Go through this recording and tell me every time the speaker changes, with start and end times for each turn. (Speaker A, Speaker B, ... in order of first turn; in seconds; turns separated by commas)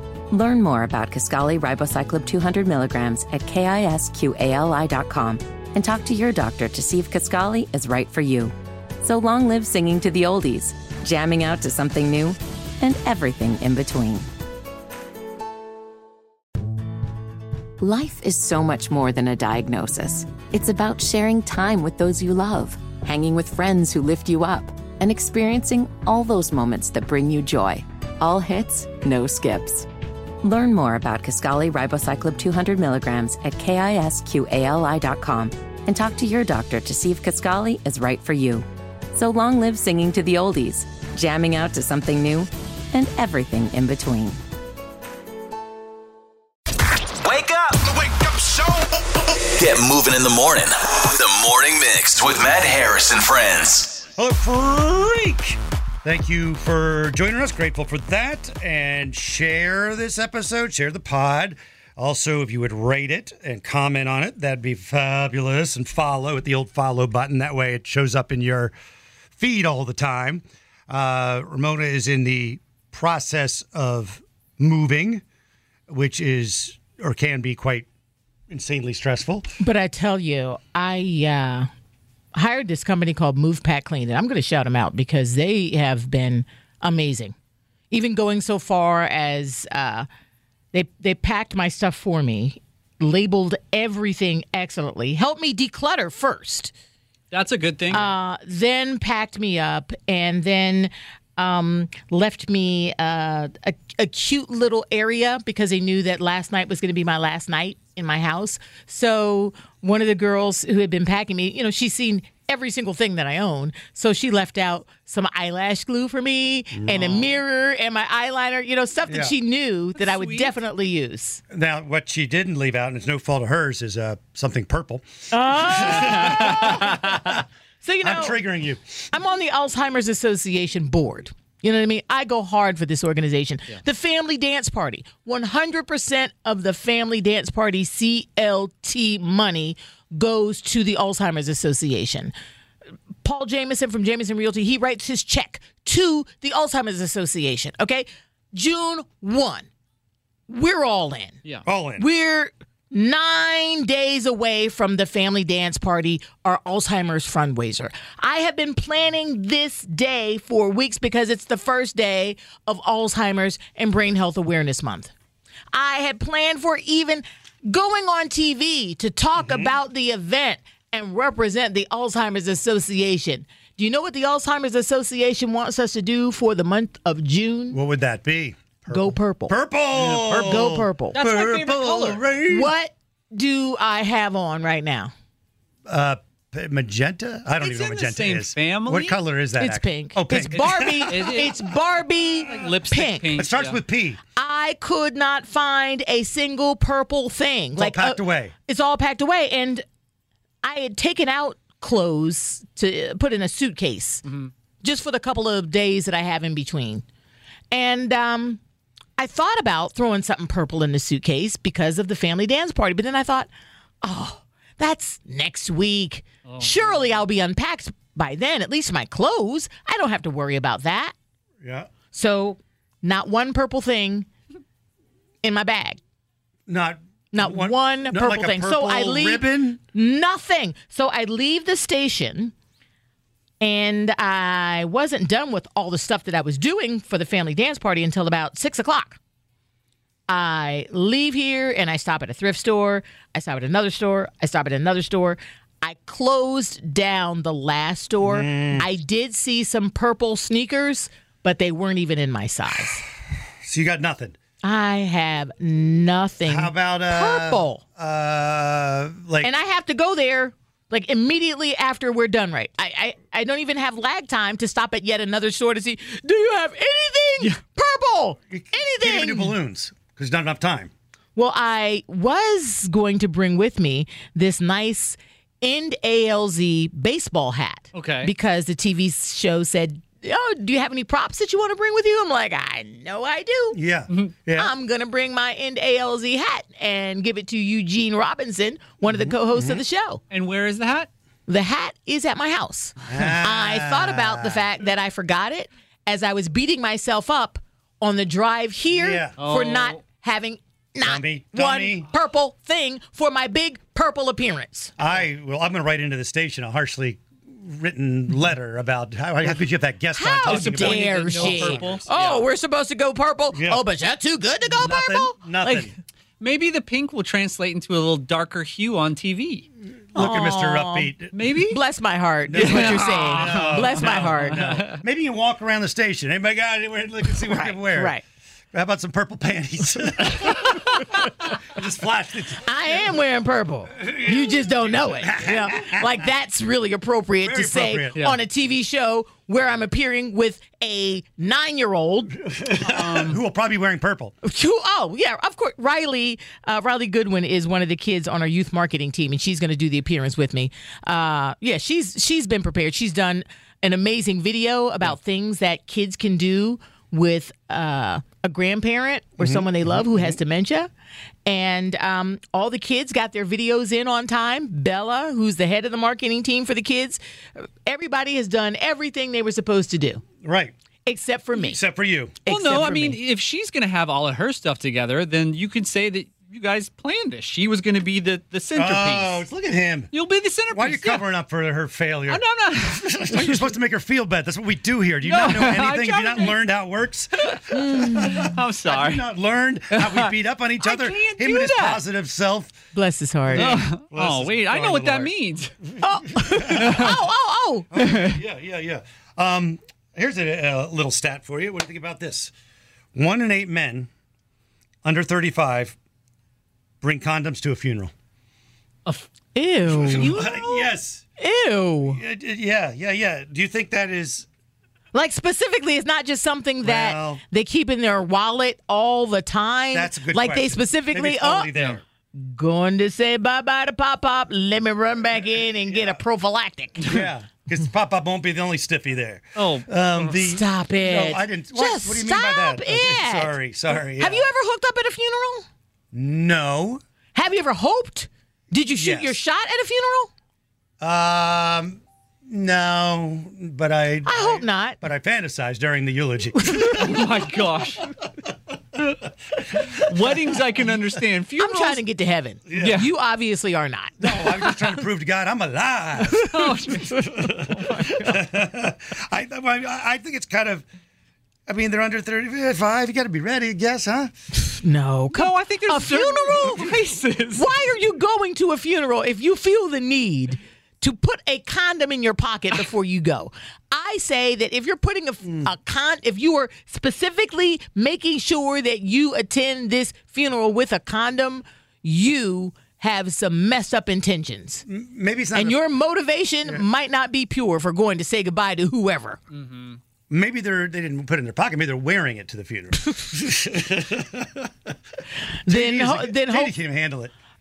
Speaker A: 0.3-14.3, Speaker A: 17.8-29.9, Speaker A: 30.4-44.4, Speaker B: 47.2-47.9, Speaker B: 49.4-54.0, Speaker C: 54.2-68.7, Speaker C: 69.4-75.2, Speaker C: 75.9-77.9, Speaker C: 78.5-79.5, Speaker D: 79.6-81.7, Speaker D: 82.3-87.3, Speaker D: 87.9-90.1, Speaker D: 90.7-96.7, Speaker E: 97.3-98.1, Speaker D: 97.9-121.4, Speaker C: 116.7-117.1, Speaker C: 119.1-119.3, Speaker E: 120.0-120.5, Speaker C: 121.5-127.4, Speaker D: 125.3-127.0, Speaker E: 126.0-127.2, Speaker D: 127.8-128.4, Speaker C: 128.0-128.8, Speaker D: 129.1-142.3, Speaker D: 143.2-149.7, Speaker D: 150.5-151.4, Speaker C: 151.7-152.1, Speaker D: 152.0-165.1, Speaker D: 165.7-177.8, Speaker C: 169.4-169.8, Speaker C: 177.7-182.7, Speaker D: 178.9-179.6, Speaker E: 180.0-180.6, Speaker D: 180.1-181.2, Speaker E: 181.1-182.3, Speaker D: 182.5-185.1, Speaker C: 185.9-191.2, Speaker E: 187.6-189.2, Speaker D: 189.6-193.4, Speaker E: 191.1-191.5, Speaker E: 192.5-193.8, Speaker C: 193.3-194.2, Speaker D: 194.3-199.8, Speaker C: 197.8-198.5, Speaker D: 200.6-204.2, Speaker E: 204.2-204.5, Speaker D: 204.8-207.1, Speaker D: 207.7-208.6, Speaker D: 209.2-213.5, Speaker D: 214.0-221.1, Speaker E: 216.5-217.0, Speaker C: 221.6-221.9, Speaker D: 222.1-224.3, Speaker D: 225.4-226.0, Speaker C: 226.7-229.8, Speaker D: 227.3-232.5, Speaker D: 233.6-239.2, Speaker D: 240.3-253.1, Speaker C: 248.2-248.9, Speaker C: 253.7-254.4, Speaker D: 254.6-257.8, Speaker C: 256.5-259.5, Speaker D: 259.4-269.6, Speaker C: 268.5-270.9, Speaker D: 271.4-283.8, Speaker E: 277.9-278.3, Speaker C: 283.7-284.7, Speaker D: 284.6-290.2, Speaker C: 289.1-289.8, Speaker E: 290.3-291.1, Speaker D: 291.5-304.9, Speaker C: 293.1-294.7, Speaker C: 298.9-299.4, Speaker E: 299.4-300.0, Speaker C: 301.0-302.1, Speaker C: 305.0-312.0, Speaker D: 310.1-315.9, Speaker E: 310.4-312.5, Speaker C: 313.5-313.8, Speaker C: 314.6-315.9, Speaker E: 316.4-319.7, Speaker C: 320.1-321.3, Speaker D: 320.1-321.1, Speaker E: 321.3-321.8, Speaker D: 321.7-324.6, Speaker C: 322.5-328.2, Speaker E: 322.6-324.9, Speaker D: 327.5-328.2, Speaker C: 328.7-331.0, Speaker C: 331.7-332.7, Speaker D: 332.6-342.5, Speaker C: 334.0-336.2, Speaker C: 337.4-338.2, Speaker C: 342.5-344.4, Speaker E: 342.8-343.4, Speaker D: 344.4-360.9, Speaker C: 359.4-360.4, Speaker D: 361.4-370.2, Speaker C: 370.4-370.7, Speaker D: 371.1-371.8, Speaker C: 371.6-372.4, Speaker D: 372.4-373.2, Speaker E: 372.5-379.4, Speaker C: 378.8-380.1, Speaker E: 380.1-381.2, Speaker C: 380.7-392.8, Speaker E: 382.3-383.7, Speaker E: 385.2-386.6, Speaker E: 387.4-389.3, Speaker D: 387.7-388.4, Speaker E: 389.9-392.0, Speaker D: 392.9-393.7, Speaker C: 393.5-395.3, Speaker E: 393.6-395.8, Speaker C: 395.9-397.2, Speaker D: 396.0-397.9, Speaker E: 396.7-397.1, Speaker C: 397.9-402.5, Speaker E: 397.9-398.4, Speaker C: 403.1-404.1, Speaker C: 405.0-406.0, Speaker C: 407.0-408.1, Speaker D: 409.6-410.4, Speaker C: 409.9-411.2, Speaker E: 410.1-410.9, Speaker D: 411.4-412.2, Speaker C: 412.0-414.5, Speaker D: 415.1-421.7, Speaker C: 416.8-417.4, Speaker C: 419.9-422.0, Speaker D: 422.3-427.2, Speaker C: 425.9-426.2, Speaker C: 427.0-434.5, Speaker E: 429.6-430.3, Speaker D: 430.4-435.6, Speaker C: 436.1-437.0, Speaker D: 437.4-440.3, Speaker C: 439.0-439.4, Speaker C: 441.0-447.2, Speaker D: 444.2-445.0, Speaker E: 446.7-448.1, Speaker E: 449.7-452.0, Speaker C: 450.2-450.5, Speaker D: 451.6-455.0, Speaker C: 452.7-453.1, Speaker E: 452.8-453.1, Speaker C: 454.2-460.9, Speaker E: 456.3-458.4, Speaker C: 461.7-464.3, Speaker D: 464.5-484.8, Speaker E: 465.3-467.7, Speaker C: 484.9-485.8, Speaker D: 485.5-489.4, Speaker E: 489.5-490.0, Speaker C: 490.3-494.9, Speaker D: 495.5-496.7, Speaker C: 495.7-497.3